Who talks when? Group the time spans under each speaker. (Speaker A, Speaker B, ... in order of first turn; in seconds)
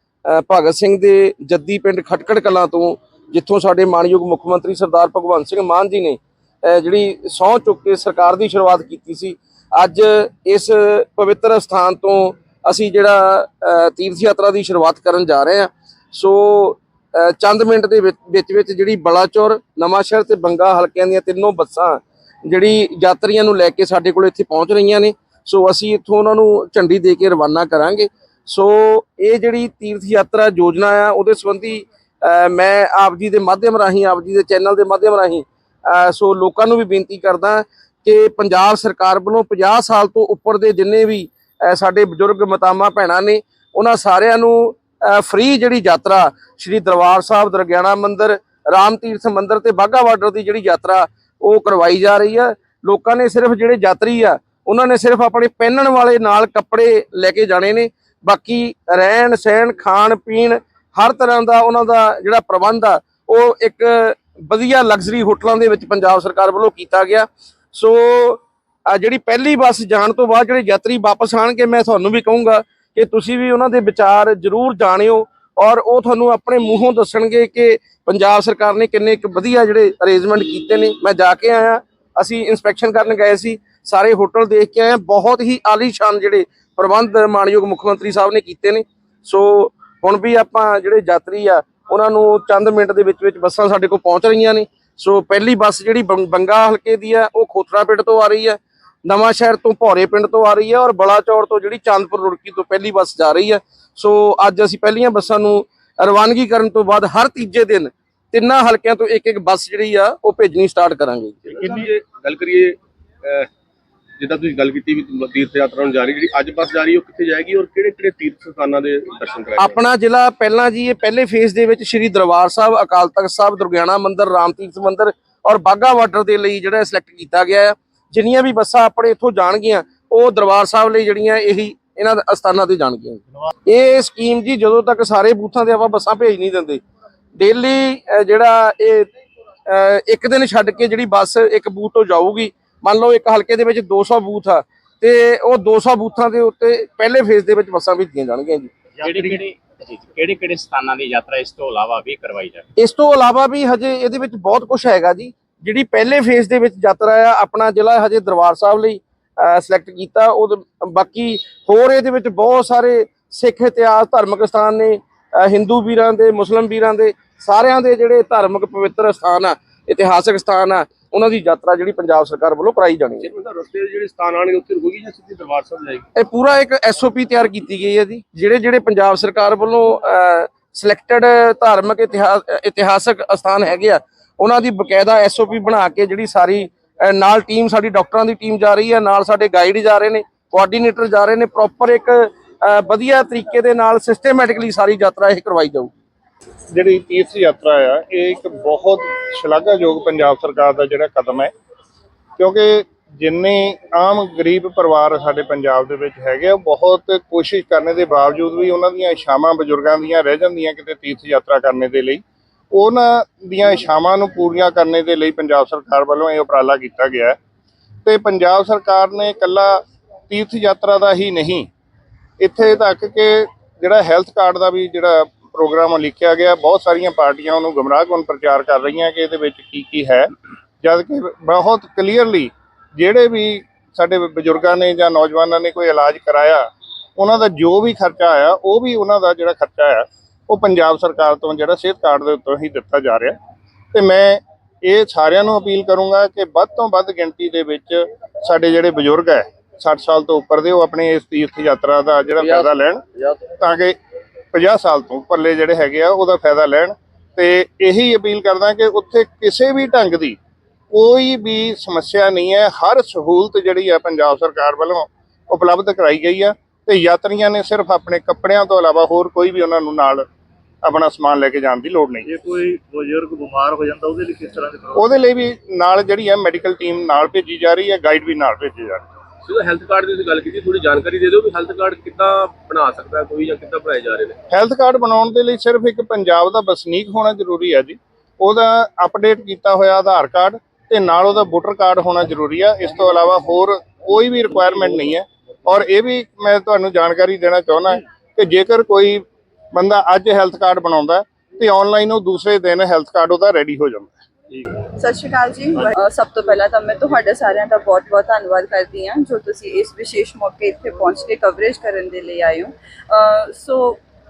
Speaker A: 0.3-111.8, 119.6-136.8, 137.4-139.1, 139.7-148.7, 152.8-173.3, 176.2-195.9
Speaker B: 111.5-113.5, 114.2-119.8, 173.2-176.1, 279.5-284.4
Speaker C: 149.0-149.4, 272.3-275.0
Speaker D: 149.0-152.7
Speaker E: 196.7-201.5, 202.4-217.4, 218.1-221.7, 222.4-230.3, 230.8-236.7, 237.2-243.4, 243.9-253.0, 253.6-254.0, 254.5-260.4, 260.9-270.2, 270.8-272.3, 275.0-279.1, 284.5-299.2, 299.7-304.1
Speaker F: 305.0-314.0